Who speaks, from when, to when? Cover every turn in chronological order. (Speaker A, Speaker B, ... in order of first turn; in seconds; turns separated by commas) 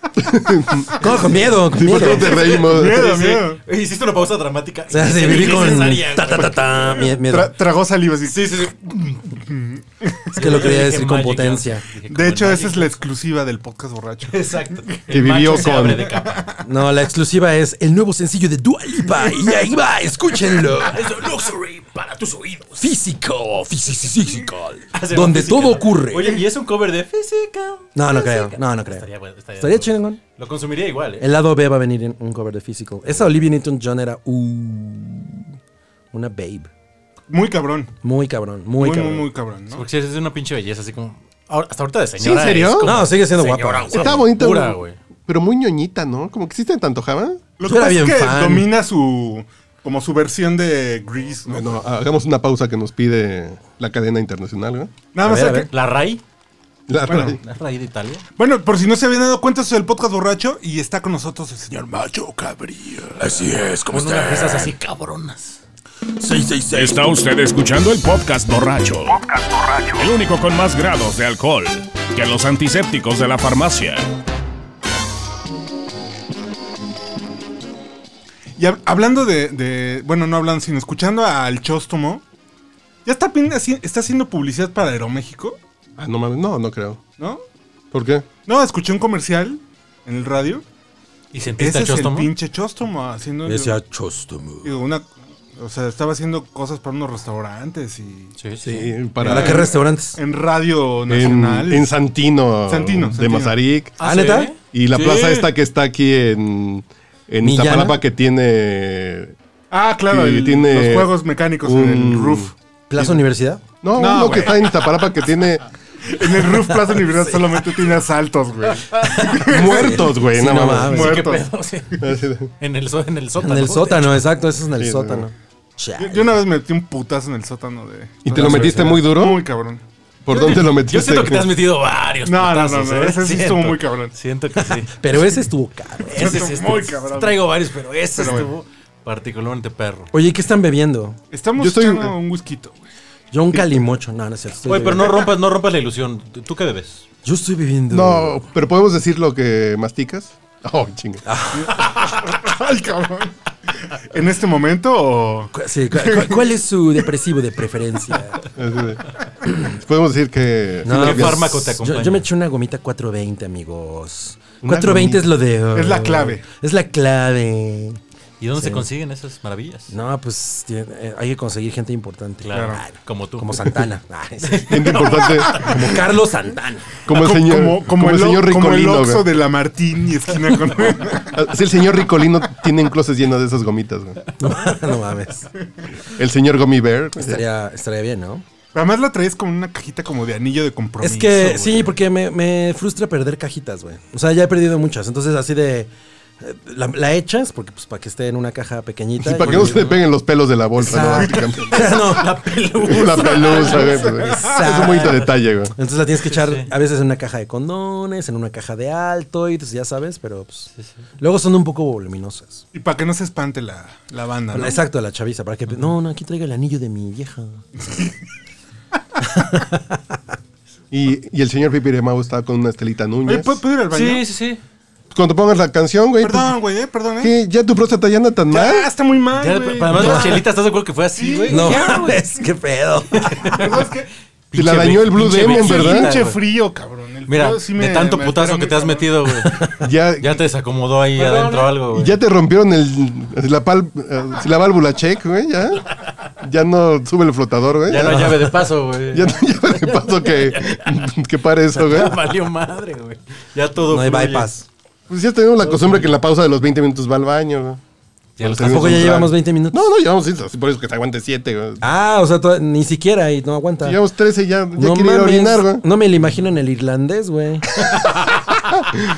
Speaker A: 0.2-1.1, Speaker B: 1.0-2.5, Speaker A: 1.7-3.4, Speaker C: 1.9-3.6, Speaker D: 2.3-7.0, Speaker B: 4.9-7.5, Speaker C: 7.0-8.7, Speaker D: 8.3-9.4, Speaker C: 9.4-10.6, Speaker D: 10.3-13.0, Speaker B: 10.4-11.8, Speaker C: 12.1-14.4, Speaker D: 14.3-16.6, Speaker A: 15.1-16.1, Speaker C: 15.6-16.5, Speaker B: 16.6-21.2, Speaker D: 20.6-22.9, Speaker B: 22.8-26.4, Speaker D: 24.9-31.3, Speaker B: 27.9-30.2, Speaker B: 31.2-35.5, Speaker B: 36.1-36.7, Speaker C: 37.3-37.9, Speaker B: 38.0-39.3, Speaker C: 38.8-39.9, Speaker D: 39.7-45.0, Speaker A: 42.2-42.9, Speaker B: 42.8-44.2, Speaker A: 43.9-47.5, Speaker C: 47.6-51.8, Speaker B: 47.6-48.7, Speaker A: 51.5-55.0, Speaker C: 55.1-55.7, Speaker B: 55.2-55.7, Speaker D: 55.5-56.2, Speaker A: 56.9-57.4, Speaker C: 57.1-57.4, Speaker D: 57.4-58.2, Speaker C: 58.4-62.2, Speaker B: 62.2-64.7, Speaker D: 63.8-65.6, Speaker B: 66.2-67.0, Speaker E: 66.7-74.1, Speaker C: 78.6-82.2, Speaker C: 83.0-85.6, Speaker A: 86.0-87.0, Speaker A: 87.9-88.3, Speaker C: 88.5-90.6, Speaker D: 91.3-92.3, Speaker C: 91.6-93.8, Speaker B: 93.4-94.8, Speaker C: 94.6-98.3, Speaker D: 98.4-98.9, Speaker A: 98.6-99.7, Speaker C: 99.2-101.9, Speaker B: 99.2-100.2, Speaker A: 101.1-103.9, Speaker C: 102.7-103.6, Speaker D: 104.0-104.6, Speaker B: 104.0-104.5, Speaker A: 104.7-109.3, Speaker C: 104.9-105.5, Speaker B: 107.4-108.0, Speaker C: 109.7-112.5, Speaker A: 110.1-113.1, Speaker B: 112.9-113.6, Speaker A: 113.8-115.6, Speaker C: 113.9-114.8, Speaker C: 116.0-120.1, Speaker D: 119.0-119.9, Speaker A: 119.4-121.0, Speaker B: 119.7-121.3, Speaker C: 120.8-121.5, Speaker D: 120.9-124.2, Speaker A: 122.0-122.5, Speaker B: 123.4-126.4, Speaker A: 124.8-125.3, Speaker C: 126.0-129.8, Speaker A: 128.2-129.5, Speaker B: 128.3-129.1, Speaker A: 130.2-131.5, Speaker D: 130.3-135.1, Speaker C: 132.2-134.1, Speaker B: 134.6-136.5, Speaker D: 136.1-140.1, Speaker C: 136.2-137.4, Speaker C: 138.1-138.5, Speaker B: 140.1-141.2, Speaker C: 141.3-142.8, Speaker A: 141.6-142.2, Speaker B: 143.3-145.3, Speaker D: 144.6-147.0, Speaker B: 147.2-148.4, Speaker A: 147.9-151.2, Speaker B: 151.2-151.8, Speaker C: 151.6-156.4, Speaker B: 155.5-158.4, Speaker A: 158.5-161.6, Speaker B: 160.8-168.0, Speaker D: 160.9-162.3, Speaker A: 164.6-165.3, Speaker C: 165.7-166.4, Speaker D: 168.4-169.9, Speaker B: 168.6-168.9, Speaker B: 169.9-177.0, Speaker D: 172.4-173.8, Speaker C: 172.5-172.8, Speaker D: 174.4-175.9, Speaker A: 174.6-175.7, Speaker C: 175.2-175.8, Speaker A: 177.1-179.3, Speaker C: 177.1-181.4, Speaker A: 181.3-184.2, Speaker B: 184.4-185.5, Speaker A: 186.1-187.4, Speaker B: 187.2-188.4, Speaker C: 188.7-191.8, Speaker B: 191.0-200.0, Speaker A: 199.2-202.2, Speaker D: 199.4-200.0, Speaker B: 200.8-202.3, Speaker D: 201.7-205.3, Speaker A: 202.8-205.7, Speaker C: 203.4-204.6, Speaker B: 203.5-205.2, Speaker B: 205.8-212.6, Speaker D: 206.2-206.7, Speaker C: 212.7-214.8, Speaker B: 214.5-217.6, Speaker C: 217.8-218.1, Speaker B: 219.2-220.2, Speaker A: 220.9-223.6, Speaker C: 223.2-224.2, Speaker D: 223.9-224.6, Speaker A: 225.1-226.6, Speaker C: 226.2-227.3, Speaker A: 227.2-228.9, Speaker C: 228.5-230.4, Speaker D: 229.3-232.0, Speaker B: 229.9-230.4, Speaker C: 231.1-232.2, Speaker B: 231.5-233.4, Speaker D: 233.2-233.9, Speaker C: 233.4-234.1, Speaker D: 234.5-236.4, Speaker A: 234.5-236.1, Speaker C: 235.4-239.1, Speaker D: 237.3-242.2, Speaker B: 239.4-239.7, Speaker A: 239.8-240.4, Speaker C: 241.2-241.7, Speaker A: 241.8-248.5, Speaker D: 247.9-251.1, Speaker B: 248.0-248.5, Speaker A: 249.1-252.2, Speaker D: 251.7-254.5, Speaker B: 253.8-254.7, Speaker A: 255.1-257.8, Speaker D: 255.6-256.2, Speaker D: 258.4-259.1, Speaker A: 258.4-261.9, Speaker B: 258.5-259.9, Speaker B: 261.8-264.0, Speaker A: 263.8-265.8, Speaker B: 264.8-267.8, Speaker D: 267.8-268.6